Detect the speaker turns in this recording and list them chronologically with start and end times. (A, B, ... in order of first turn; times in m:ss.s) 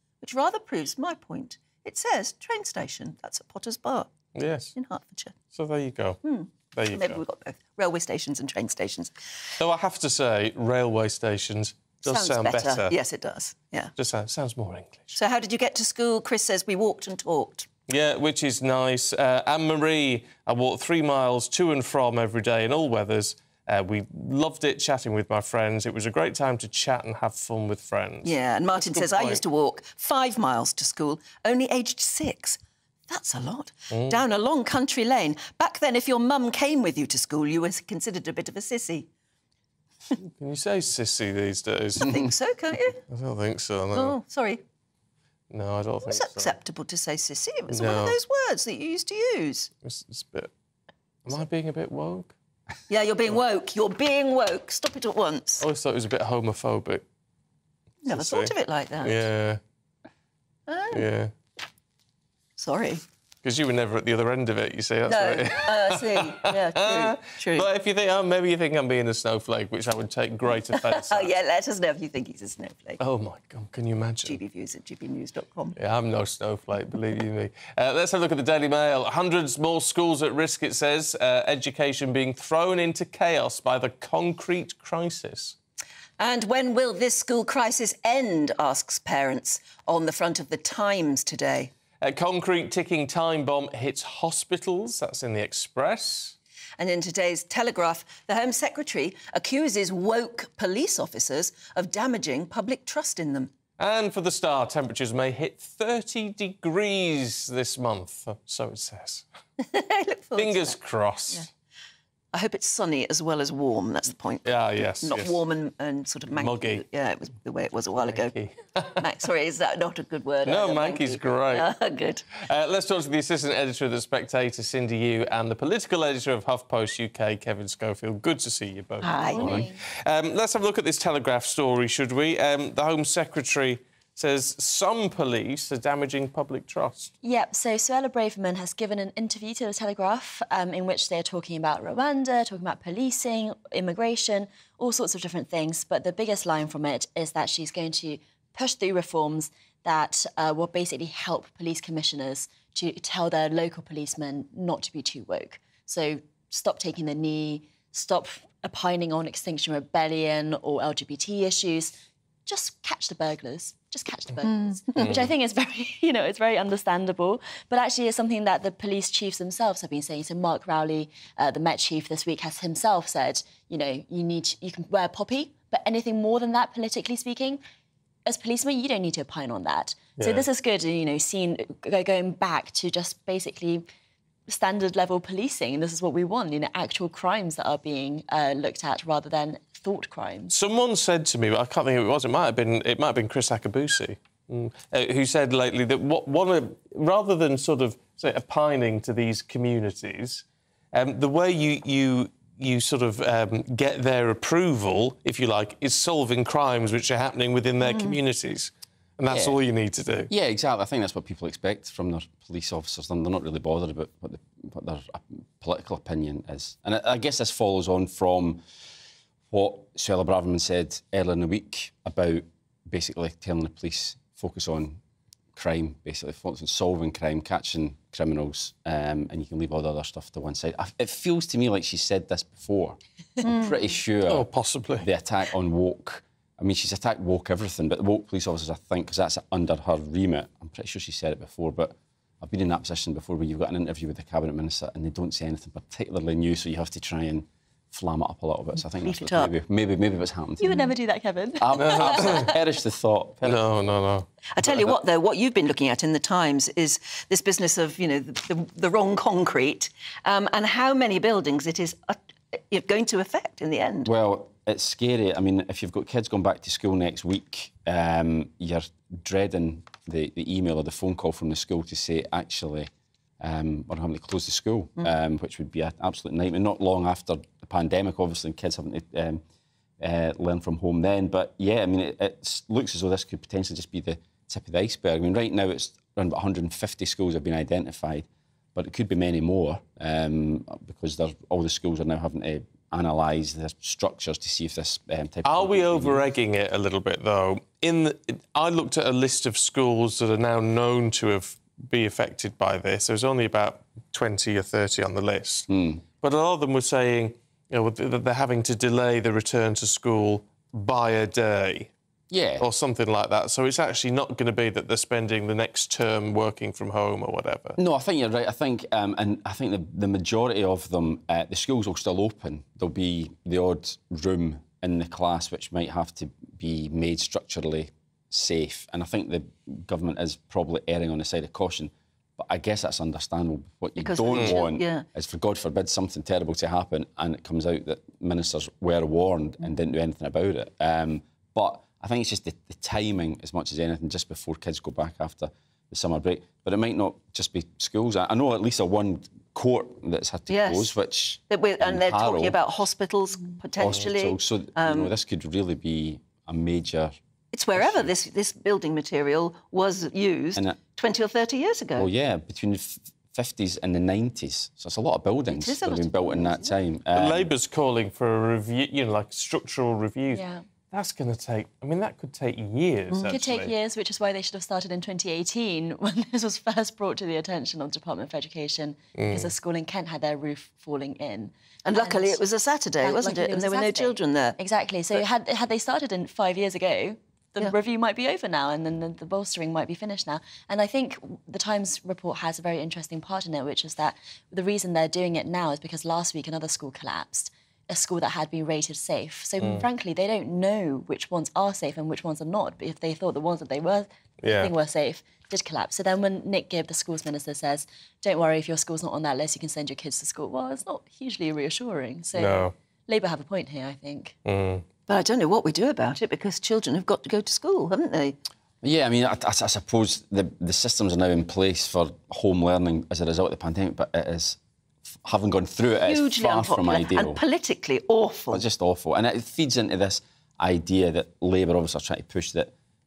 0:00.2-0:04.1 A
0:04.3-0:04.7 B
0:04.7-0:05.4 A
0:05.5-0:06.2 B
0:06.2-0:09.1 A
0:06.7-0:07.2 B
0:09.6-0:13.0 B
0:12.0-0:13.9 A
0:14.0-0:15.1 B
0:15.1-0:17.7 A
0:17.9-0:29.4 B
0:28.2-0:39.1 A
0:33.9-0:34.2 B
0:40.1-0:42.2 B
0:42.0-0:43.0 A
0:43.1-0:44.2 B
0:43.9-0:44.6 A
0:45.5-0:46.6 B
0:46.0-0:49.7 A
0:47.7-0:48.2 B
0:49.8-0:50.5 B
0:51.2-0:52.3 B
0:52.9-0:55.6 A
0:55.6-0:57.0 B
0:58.0-0:59.2 A
0:58.0-0:59.6 B
1:00.7-1:01.0 A
1:00.9-1:01.3 B
1:02.6-1:03.0 A
1:03.4-1:11.3 B
1:05.1-1:07.7 A
1:10.7-1:13.0 A
1:13.0-1:14.4 B
1:14.2-1:15.8 A
1:15.8-1:25.6 B
1:26.2-1:31.7 A
1:32.0-1:36.3 B
1:36.8-1:43.5 A
1:43.8-1:49.2 B
1:49.6-1:50.8 A
1:50.4-1:51.5 B
1:52.3-1:54.5 A
1:54.4-1:55.4 B
1:55.0-1:58.3 A
1:56.3-1:56.8 B
1:58.0-1:59.0 B
1:59.0-2:02.2 A
2:00.4-2:01.7 B
2:02.4-2:17.1 B
2:09.0-2:09.6 A
2:09.3-2:09.8 C
2:17.2-2:41.9 C
2:42.4-2:57.6 C
2:44.5-2:45.0 A
2:45.0-2:45.3 B
2:58.2-3:03.8 C
3:00.2-3:00.4 B
3:04.5-3:10.5 C
3:10.5-3:30.3 B
3:27.8-3:28.2 A
3:29.3-3:29.6 D
3:30.3-3:38.6 D
3:39.5-3:45.0 D
3:45.6-4:10.8 D
3:53.4-3:53.7 A
3:54.3-3:55.1 B
4:09.0-4:09.5 A
4:10.6-4:12.5 C
4:11.6-4:13.6 D
4:11.8-4:12.5 B
4:13.4-4:14.8 B
4:14.5-4:24.1 A
4:24.0-4:32.9 D
4:33.4-4:39.4 D
4:40.0-4:56.2 D
4:55.4-5:05.7 B
5:05.7-5:06.0 D
5:06.2-5:11.9 B
5:12.3-5:12.6 D
5:12.6-5:17.8 B
5:17.8-5:52.6 D
5:34.0-5:35.1 A
5:50.5-5:50.9 A
5:51.5-5:55.1 A
5:53.8-5:57.1 D
5:57.5-6:02.1 A
5:57.8-5:58.1 D
6:02.0-6:07.5 D
6:05.5-6:06.8 A
6:07.1-6:13.7 B
6:10.3-6:10.6 C
6:13.1-6:13.4 A
6:13.3-6:22.4 C
6:19.1-6:19.5 B
6:21.8-6:24.6 A
6:23.0-6:54.3 C
6:39.6-6:39.9 B
6:44.4-6:44.7 B
6:52.4-6:52.7 B
6:54.4-6:54.8 B
6:55.1-6:58.4 A
6:58.8-7:04.6 D
7:05.2-7:07.4 D
7:06.0-7:08.6 A
7:08.5-7:12.7 D